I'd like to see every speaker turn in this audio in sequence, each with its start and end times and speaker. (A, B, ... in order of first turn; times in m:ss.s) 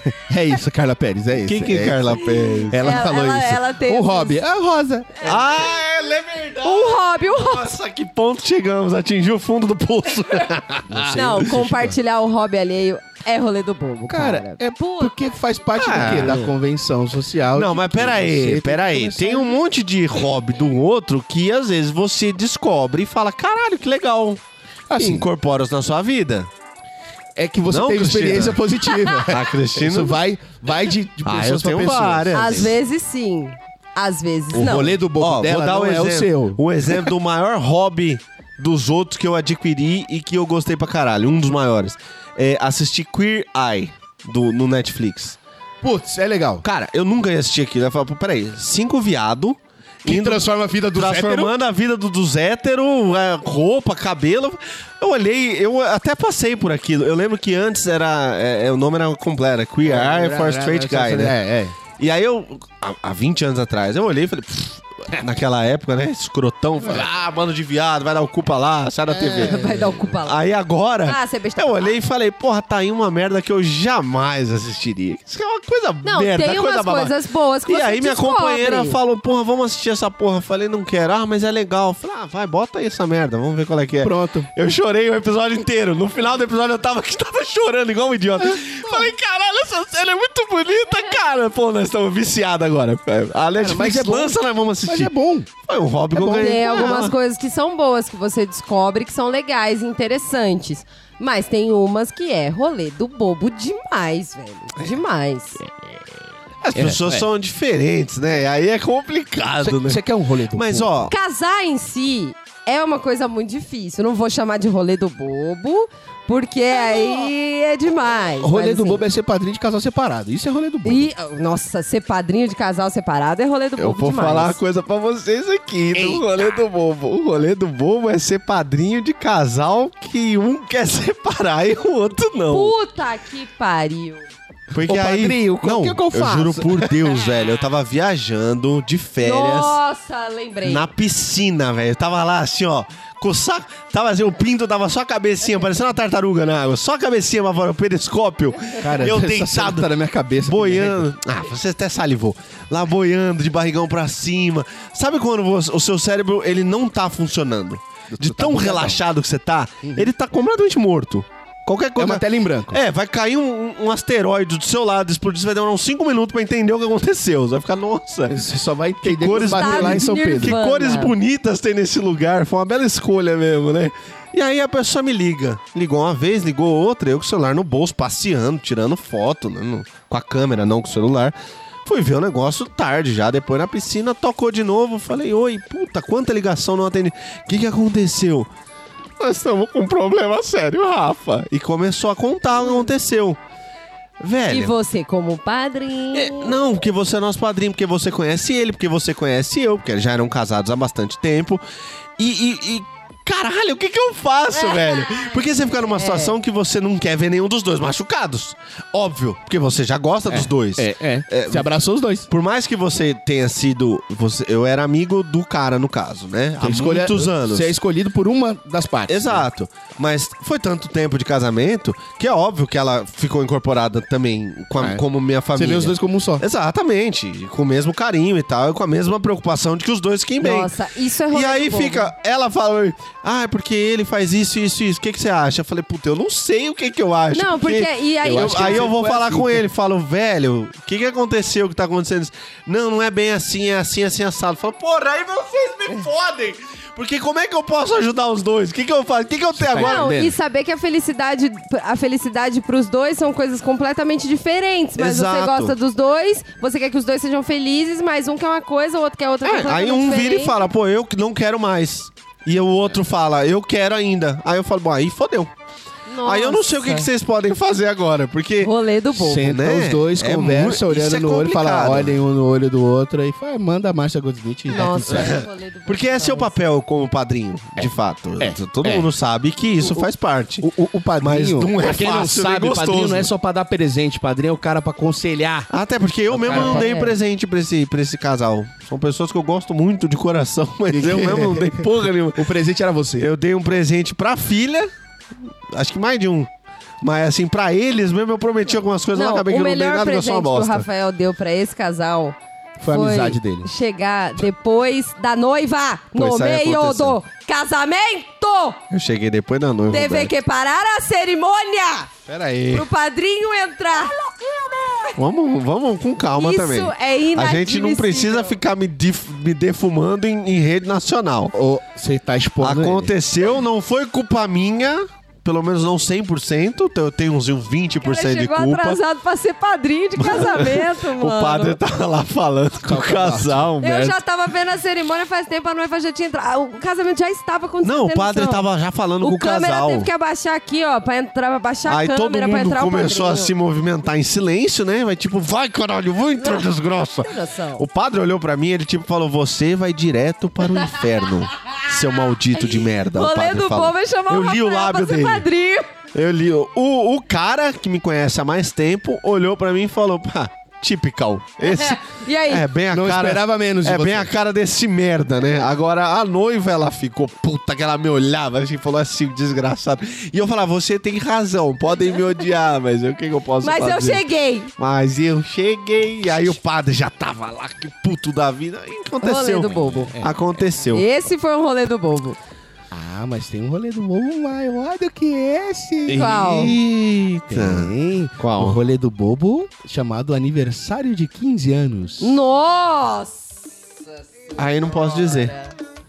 0:00.1-0:05.4 A
0:01.4-0:02.9 B
0:02.2-0:04.4 C
0:05.2-0:11.6 B
0:06.6-0:07.7 C
0:10.9-0:11.9 A
0:11.1-0:15.1 C
0:14.1-0:19.6 A
0:15.8-0:16.5 B
0:17.5-0:24.4 B
0:24.9-0:25.2 A
0:24.9-0:26.5 B
0:27.4-0:32.7 A
0:27.7-0:28.6 B
0:29.3-0:30.2 B
0:31.2-0:32.7 B
0:32.3-0:34.9 C
0:34.5-0:37.1 A
0:35.2-0:45.4 B
0:45.8-0:46.6 A
0:46.6-1:01.4 B
0:50.0-0:51.5 A
0:59.8-1:01.8 A
1:02.0-1:09.7 B
1:06.8-1:07.1 A
1:09.2-1:10.4 C
1:09.3-1:09.9 A
1:10.2-1:17.1 B
1:11.0-1:12.0 C
1:16.0-1:19.0 C
1:17.7-1:35.1 B
1:24.0-1:24.5 A
1:28.5-1:29.1 A
1:33.6-1:35.5 A
1:35.6-1:37.1 B
1:36.1-1:37.0 A
1:36.2-1:45.6 C
1:46.6-1:50.0 B
1:46.7-1:47.3 A
1:49.6-1:51.1 A
1:50.5-1:51.1 B
1:51.1-1:59.0 C
1:58.4-2:01.1 A
2:00.8-2:04.6 C
2:03.8-2:12.7 B
2:05.9-2:06.2 A
2:12.5-2:14.3 C
2:14.7-2:19.8 B
2:14.8-2:17.1 A
2:19.2-2:20.9 C
2:20.6-2:29.9 B
2:28.8-2:31.1 A
2:30.4-2:48.4 B
2:38.1-2:39.0 A
2:39.8-2:40.1 A
2:42.0-2:42.8 A
2:48.3-2:50.6 A
2:49.0-3:08.5 B
2:49.3-2:51.1 C
3:09.2-3:13.4 B
3:14.2-3:14.7 B
3:14.5-3:16.6 C
3:16.1-3:21.6 B
3:22.2-3:31.7 B
3:24.5-3:26.4 C
3:30.3-3:32.3 A
3:32.3-3:37.7 B
3:36.6-3:39.4 A
3:39.1-3:50.7 B
3:44.8-3:46.4 A
3:50.4-3:52.1 C
3:51.3-4:10.1 B
3:57.3-3:58.9 C
3:58.2-3:59.6 A
4:09.5-4:10.3 A
4:09.8-4:20.6 C
4:15.0-4:15.7 B
4:19.4-4:25.5 B
4:26.1-4:27.1 C
4:26.2-4:28.7 B
4:28.6-4:29.5 C
4:29.1-4:35.4 A
4:29.4-4:32.1 B
4:34.7-4:36.5 C
4:34.8-4:40.7 B
4:37.8-4:39.1 A
4:39.8-4:40.1 A
4:40.6-4:45.7 A
4:41.2-4:43.3 B
4:45.7-4:52.5 B
4:46.3-4:46.9 A
4:46.4-4:47.1 C
4:50.9-4:53.3 A
4:53.2-4:54.9 B
4:55.7-4:56.5 B
4:57.0-5:00.9 B
4:59.1-5:02.4 C
5:02.8-5:03.7 A
5:02.9-5:08.8 C
5:06.2-5:07.2 B
5:08.9-5:10.3 B
5:09.9-5:12.1 C
5:12.3-5:12.8 B
5:12.7-5:15.2 C
5:15.2-5:21.5 B
5:16.3-5:18.6 C
5:21.5-5:23.1 A
5:22.6-5:29.0 B
5:28.0-5:31.8 C
5:30.2-5:34.2 B
5:32.8-5:33.7 A
5:33.8-5:38.6 C
5:37.8-5:40.1 B
5:39.2-5:43.5 C
5:41.9-5:55.4 B
5:46.4-5:46.7 C
5:47.2-5:47.8 C
5:52.6-5:55.9 C
5:56.1-6:14.2 B
6:01.6-6:02.6 C
6:02.9-6:04.3 A
6:13.6-6:14.7 C
6:14.8-6:21.0 B
6:19.2-6:20.2 C
6:19.9-6:20.3 A
6:20.9-6:22.4 C
6:22.9-6:26.3 A
6:26.1-6:28.8 B
6:26.1-6:26.7 C
6:27.5-6:32.4 A
6:32.2-6:35.7 C
6:34.6-6:35.5 B